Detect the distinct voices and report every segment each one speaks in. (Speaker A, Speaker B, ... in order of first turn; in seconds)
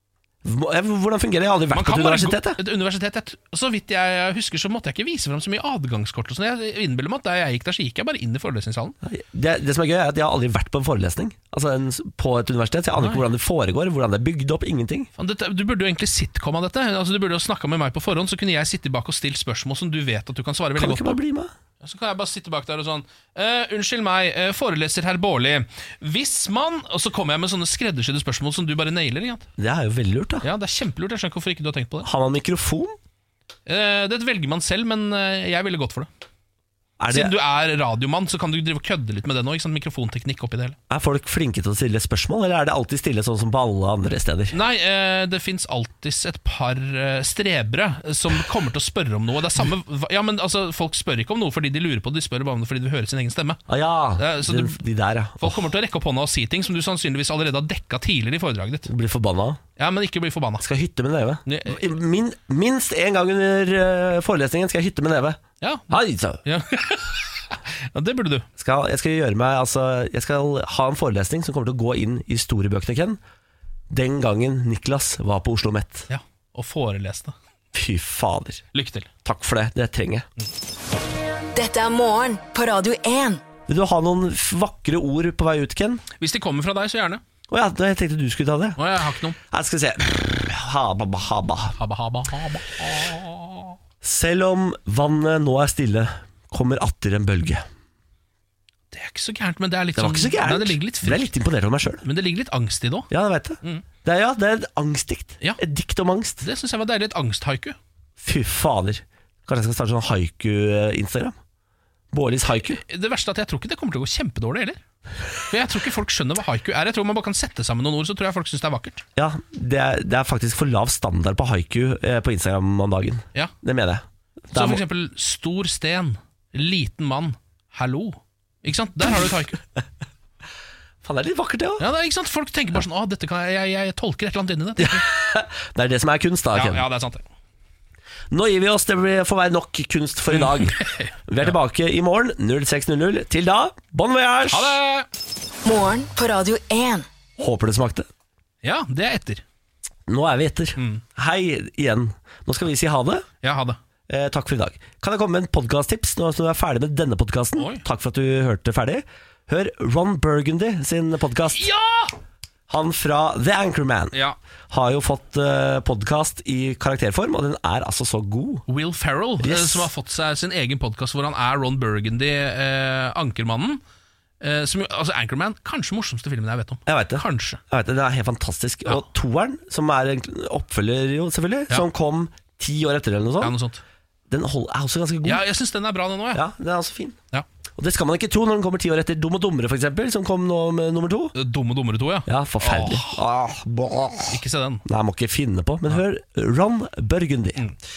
Speaker A: 0.4-2.6, 9.0-15.1, 20.8-21.5, 29.6-30.5, 32.0-33.0, 37.0-37.3, 40.9-44.5, 53.7-55.6, 58.9-59.6, 60.6-66.4, 68.6-73.2, 73.9-76.1, 77.7-78.6, 79.2-80.3, 83.7-86.0, 87.5-88.8, 89.5-91.8, 94.0-97.6, 99.9-102.0, 103.1-106.4, 108.2-111.4, 112.1-112.8, 119.2-124.8, 131.0-131.9, 134.8-136.8, 138.3-144.8, 147.4-148.1, 150.1-153.3, 154.1-161.7, 162.7-164.2, 164.7-168.6, 169.4-169.9, 176.9-183.6, 184.3-185.4, 186.3-187.2, 187.8-191.3, 192.3-197.7
Speaker B: 1.7-8.9, 13.0-13.2, 15.2-21.2, 21.8-29.5, 30.4-32.1, 33.6-36.1, 37.1-40.8, 44.5-53.6, 54.2-54.8, 55.4-58.9, 59.8-60.6, 61.5-61.8, 65.6-68.5, 76.1-77.3, 78.7-79.1, 86.2-87.2, 88.8-89.4, 91.8-93.7, 98.9-101.2, 102.0-103.1, 106.4-107.8, 112.7-114.8, 115.5-119.0, 124.5-129.6, 131.8-135.0, 136.5-137.2, 140.3-141.6, 144.5-145.1, 148.6-149.4, 150.8-151.0, 153.4-153.8, 157.6-157.8, 161.5-162.1, 168.7-173.8, 174.4-177.6, 183.4-183.8, 185.2-186.4, 191.3-193.2, 194.3-194.8
Speaker C: 81.5-83.4, 145.6-147.1